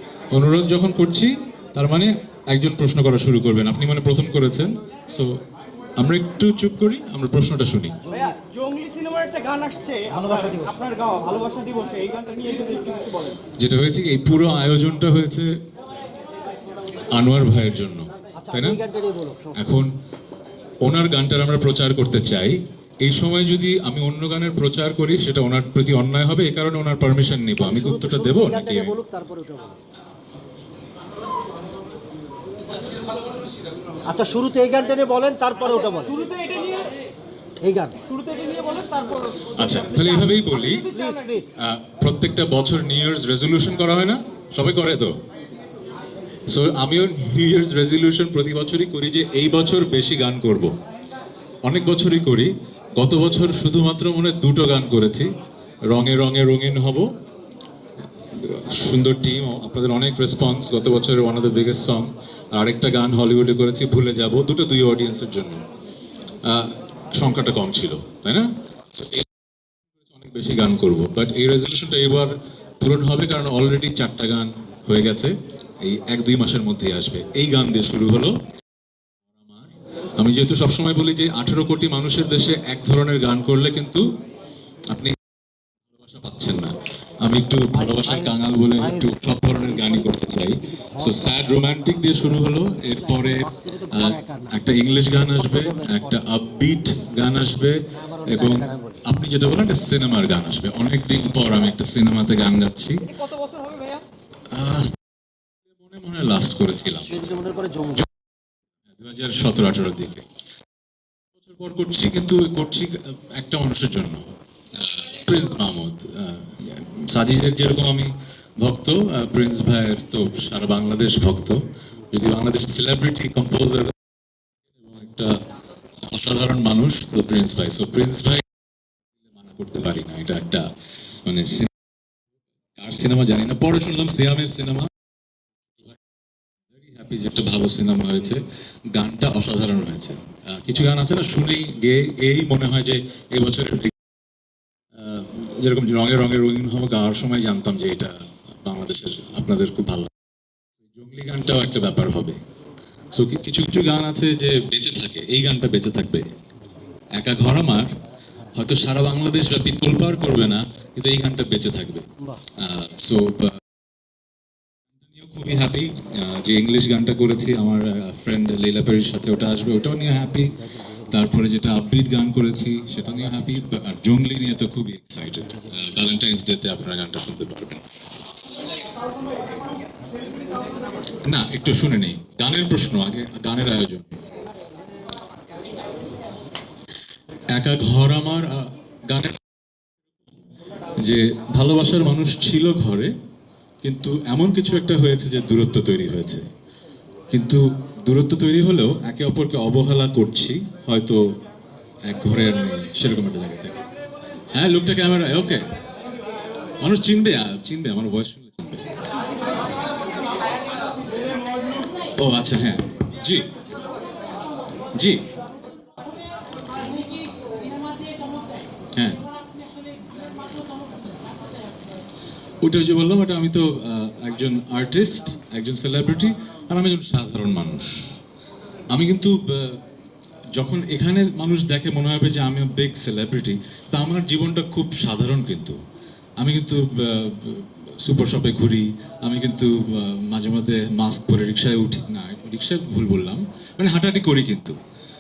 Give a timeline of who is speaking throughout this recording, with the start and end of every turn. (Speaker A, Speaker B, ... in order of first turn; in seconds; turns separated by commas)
Speaker A: 0.3-5.3, Speaker A: 6.0-8.0, Speaker B: 8.0-8.4, Speaker C: 8.3-13.4, Speaker B: 10.1-10.9, Speaker A: 13.6-15.5, Speaker A: 17.1-18.8, Speaker B: 18.4-19.6, Speaker A: 19.6-19.9, Speaker A: 20.8-29.0, Speaker B: 27.6-29.8, Speaker B: 34.1-36.3, Speaker C: 36.2-36.9, Speaker B: 37.6-38.1, Speaker C: 38.1-39.5, Speaker A: 39.5-40.9, Speaker B: 40.9-41.5, Speaker A: 41.6-45.1, Speaker A: 46.5-50.7, Speaker A: 51.6-55.3, Speaker A: 55.9-57.1, Speaker A: 58.3-65.7, Speaker A: 66.4-69.3, Speaker A: 70.0-78.4, Speaker A: 79.3-84.0, Speaker A: 85.9-103.2, Speaker B: 87.8-90.1, Speaker B: 90.6-91.3, Speaker B: 92.9-94.6, Speaker B: 95.5-96.2, Speaker B: 98.0-99.0, Speaker C: 103.2-104.0, Speaker A: 104.5-105.0, Speaker A: 105.7-107.3, Speaker B: 107.0-108.1, Speaker A: 108.9-110.2, Speaker A: 111.4-123.9, Speaker A: 124.8-125.4, Speaker A: 126.0-128.4, Speaker A: 129.3-130.7, Speaker A: 131.3-131.7, Speaker A: 132.8-134.9, Speaker A: 136.7-138.4, Speaker A: 138.9-143.9, Speaker A: 144.9-150.1, Speaker A: 150.9-152.4, Speaker A: 153.1-156.3, Speaker A: 157.1-157.9, Speaker A: 158.5-163.6, Speaker A: 165.0-177.8, Speaker A: 181.2-184.2, Speaker A: 187.5-189.4, Speaker A: 191.0-193.1, Speaker A: 193.8-196.5, Speaker A: 197.3-201.2, Speaker A: 202.1-203.8, Speaker A: 204.5-205.7, Speaker A: 206.8-208.9, Speaker A: 212.2-213.5, Speaker A: 214.9-215.2, Speaker A: 218.9-219.3, Speaker A: 222.6-228.2, Speaker A: 228.9-229.8, Speaker A: 230.5-235.8, Speaker A: 236.4-244.8